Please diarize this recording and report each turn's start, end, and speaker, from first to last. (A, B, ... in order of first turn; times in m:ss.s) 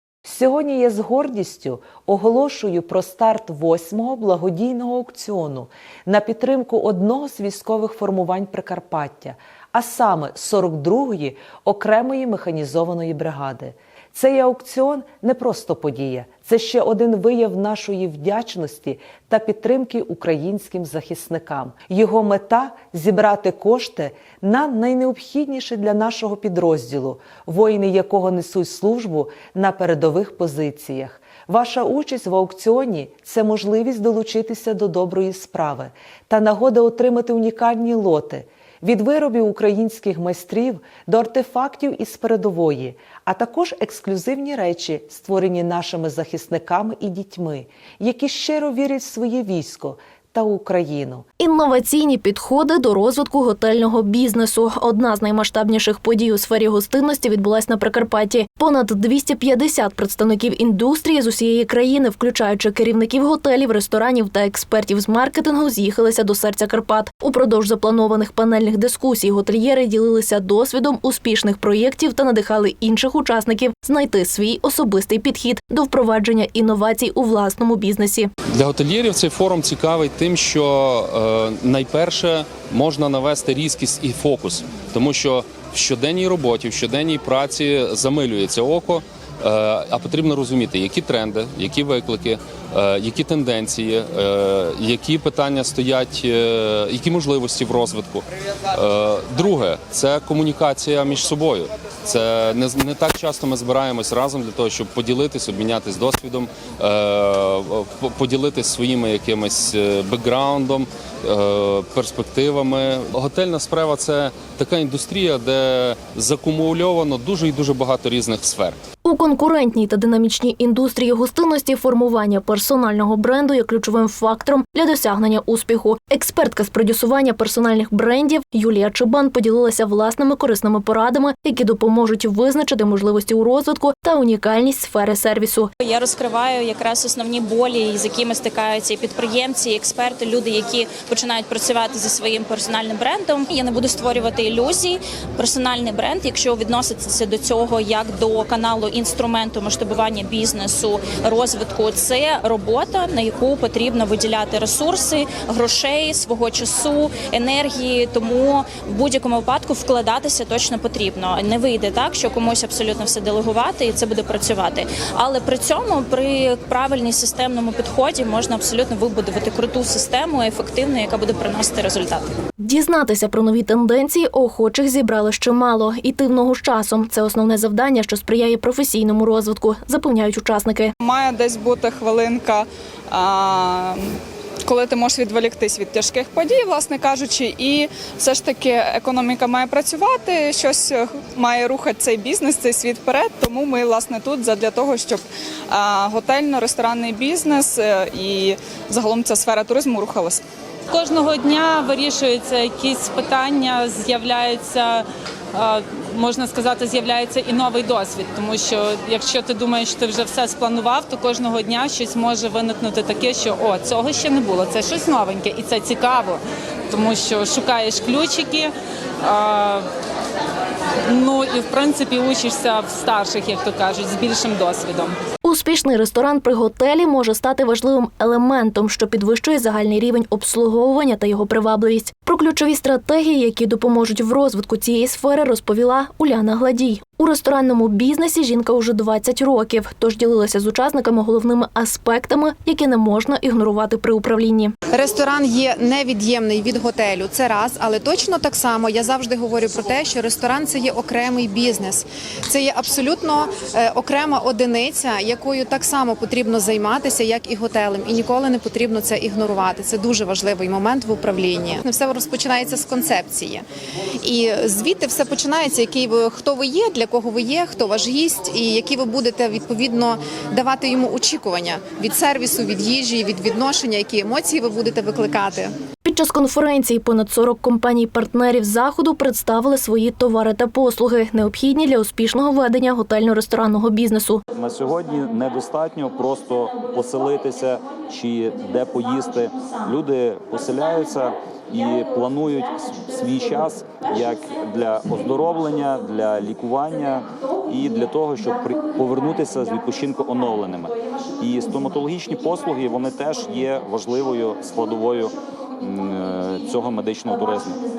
0:00.2-0:51.2 A
0:51.4-1:18.3 B
1:18.5-1:58.8 C
1:59.0-2:15.7 B
2:15.8-2:52.3 D
2:52.6-3:00.9 B
3:01.0-3:04.0 E
3:04.6-3:20.4 E
3:20.9-3:38.7 F
3:39.2-3:39.8 F
3:41.1-3:45.2 F
3:45.4-4:04.7 B
4:04.9-4:23.6 G
4:24.2-4:35.7 G
4:36.0-4:44.4 B
4:44.5-5:07.8 H